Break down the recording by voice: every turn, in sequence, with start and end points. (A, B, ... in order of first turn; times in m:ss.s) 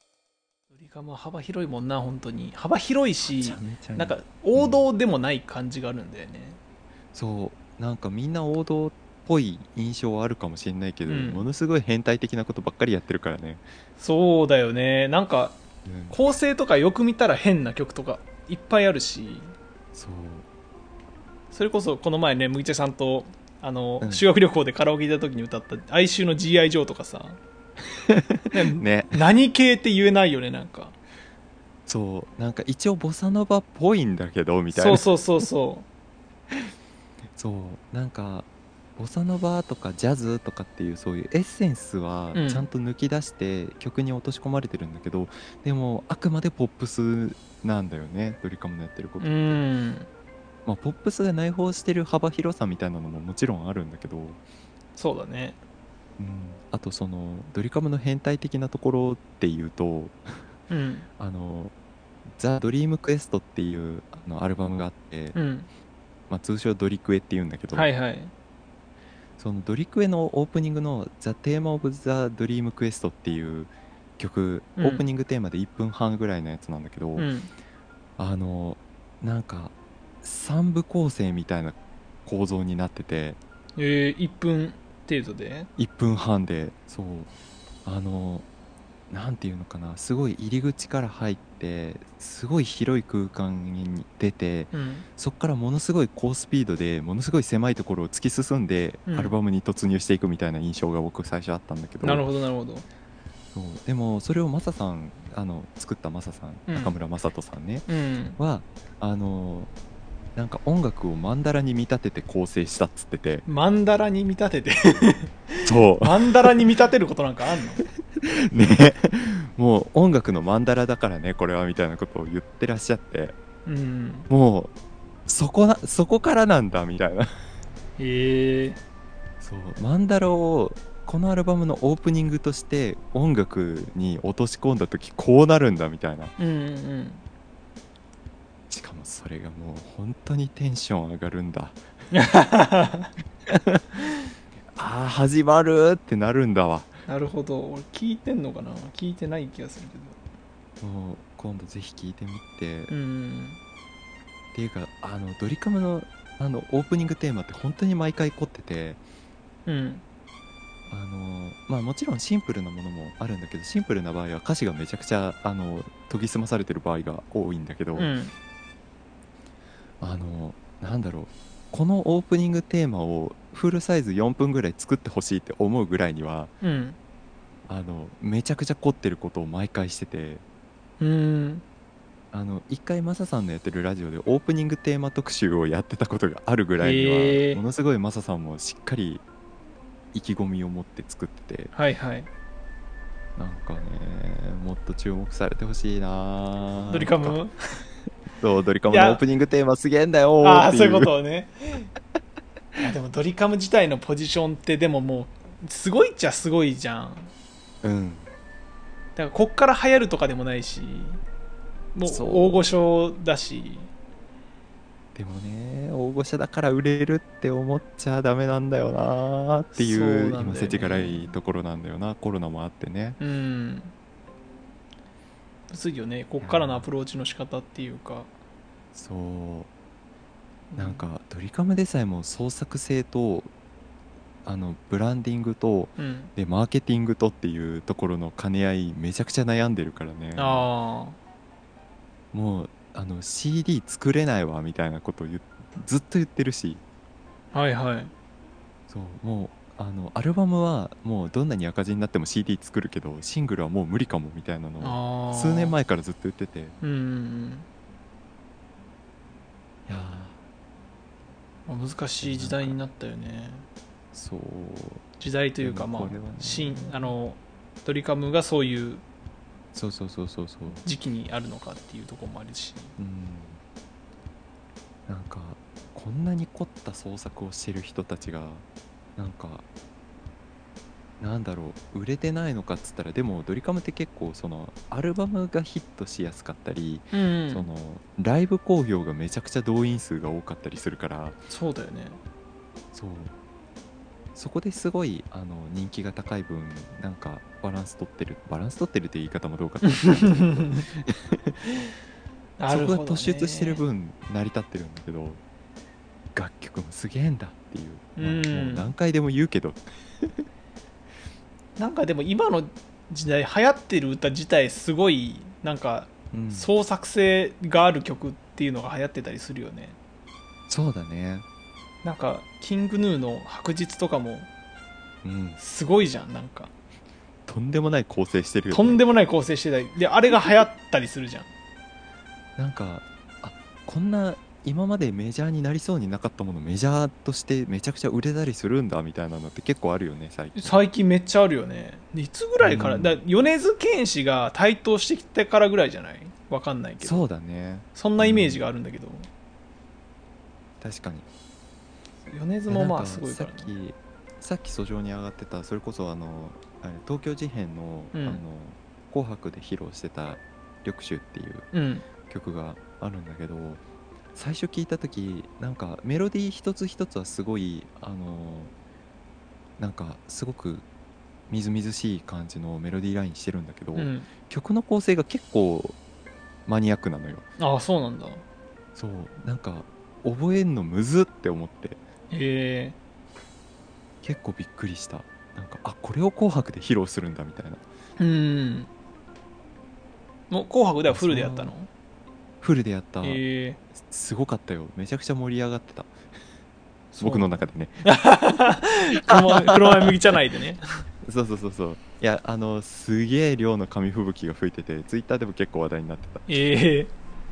0:00.7-0:06.6 A
0:03.2-0:04.9 B
0:07.1-0:13.6 B
0:11.0-0:11.4 A
0:14.0-0:15.6 A
0:15.8-0:16.2 B
0:16.1-0:19.5 A
0:19.9-0:20.4 B
0:21.5-0:27.4 A
0:24.0-0:24.3 B
0:28.1-0:29.2 B
0:28.5-0:31.0 A
0:31.9-0:35.1 B
0:34.7-0:35.9 A
0:37.3-0:49.6 B
0:42.3-0:42.7 A
0:49.2-0:50.1 A
0:50.7-0:54.4 B
0:55.0-0:55.6 A
0:56.2-1:00.3 B
1:00.7-1:01.1 A
1:01.2-1:01.7 B
1:02.4-1:05.4 B
1:05.3-1:05.7 A
1:06.3-1:07.9 B
1:07.7-1:08.3 A
1:09.4-1:17.3 B
1:14.8-1:15.0 A
1:17.2-1:17.5 A
1:18.2-1:23.4 B
1:23.8-1:25.7 A
1:25.8-1:27.3 B
1:27.8-1:28.4 B
1:29.1-1:42.3 B
1:34.7-1:35.0 A
1:39.1-1:39.3 A
1:42.0-1:42.9 A
1:43.5-1:47.9 B
1:46.7-1:47.0 A
1:47.9-1:48.4 A
1:48.4-1:49.7 B
1:50.3-1:53.4 B
1:53.4-1:57.8 A
1:55.6-1:56.6 B
1:58.2-2:03.3 B
2:03.7-2:04.3 A
2:04.3-2:04.7 B
2:05.3-2:07.3 B
2:08.0-2:08.8 A
2:09.4-2:16.3 B
2:16.4-2:17.2 A
2:18.7-2:21.8 B
2:22.1-2:23.1 A
2:23.5-2:23.8 B
2:24.7-2:27.0 B
2:27.1-2:30.2 A
2:30.8-2:32.9 B
2:32.9-2:33.6 A
2:34.5-2:39.0 B
2:39.7-2:40.0 A
2:40.9-2:48.1 B
2:47.9-2:48.3 A
2:50.0-2:56.5 B
2:56.6-2:57.0 A
2:57.7-3:00.4 B
3:01.0-3:01.6 A
3:02.3-3:09.2 B
3:06.8-3:07.6 A
3:10.1-3:11.7 B
3:11.7-3:12.3 A
3:13.4-3:17.4 B
3:16.9-3:17.5 A
3:18.4-3:21.1 B
3:18.9-3:19.2 A
3:20.4-3:21.9 A
3:22.8-3:27.3 A
3:27.8-3:28.3 B
3:29.2-3:31.2 A
3:31.9-3:33.9 A
3:32.0-3:32.6 B
3:35.2-3:43.2 B
3:39.7-3:41.3 A
3:43.2-3:43.9 A
3:45.7-3:48.3 A
3:46.4-3:46.9 B
3:48.9-3:49.7 B
3:50.7-3:51.1 A
3:50.8-3:53.5 B
3:54.4-4:00.7 B
3:56.0-3:56.3 A
4:00.4-4:01.2 A
4:02.3-4:06.8 B
4:07.5-4:08.1 A
4:08.9-4:16.8 B
4:14.8-4:15.8 A
4:16.8-4:17.7 A
4:19.9-4:20.4 B
4:21.7-4:23.6 A
4:22.2-4:22.8 B
4:24.1-4:25.0 B
4:25.2-4:29.0 A
4:25.6-4:27.2 B
4:29.7-4:30.8 B
4:30.8-4:32.9 A
4:33.0-4:33.6 B
4:35.1-4:38.6 B
4:39.2-4:39.6 B
4:41.2-4:51.4 B
4:47.1-4:47.7 A
4:51.5-4:52.2 A
4:52.9-4:53.3 B
4:54.4-5:01.6 B
4:59.8-5:00.9 A
5:02.6-5:03.8 A
5:02.7-5:05.4 B
5:06.4-5:09.8 B
5:08.2-5:08.9 A
5:11.8-5:20.0 A
5:16.3-5:16.7 B
5:20.7-5:21.4 B
5:22.0-5:24.5 A
5:25.2-5:25.6 B
5:25.6-5:26.7 A
5:27.4-5:29.0 B
5:28.7-5:31.5 A
5:32.6-5:40.8 B
5:40.6-5:47.2 A
5:42.6-5:43.2 B
5:47.0-5:48.7 B
5:47.9-5:49.3 A
5:50.8-5:51.3 B
5:52.2-5:53.7 A
5:52.7-6:01.7 B
5:58.1-5:58.4 A
6:01.7-6:02.1 A
6:02.3-6:03.8 B
6:04.4-6:08.7 B
6:09.8-6:10.8 B
6:11.5-6:16.0 B
6:13.9-6:14.3 A
6:16.7-6:17.5 B
6:17.6-6:18.4 A
6:18.9-6:22.0 B
6:22.3-6:23.0 A
6:24.2-6:27.8 B
6:28.2-6:28.9 A
6:30.5-6:31.9 A
6:31.1-6:31.7 B
6:32.6-6:33.4 B
6:33.2-6:33.8 A
6:34.0-6:36.1 B
6:37.1-6:40.8 A
6:37.2-6:38.0 B
6:39.5-6:40.1 B
6:41.2-6:46.5 B
6:46.5-6:47.1 A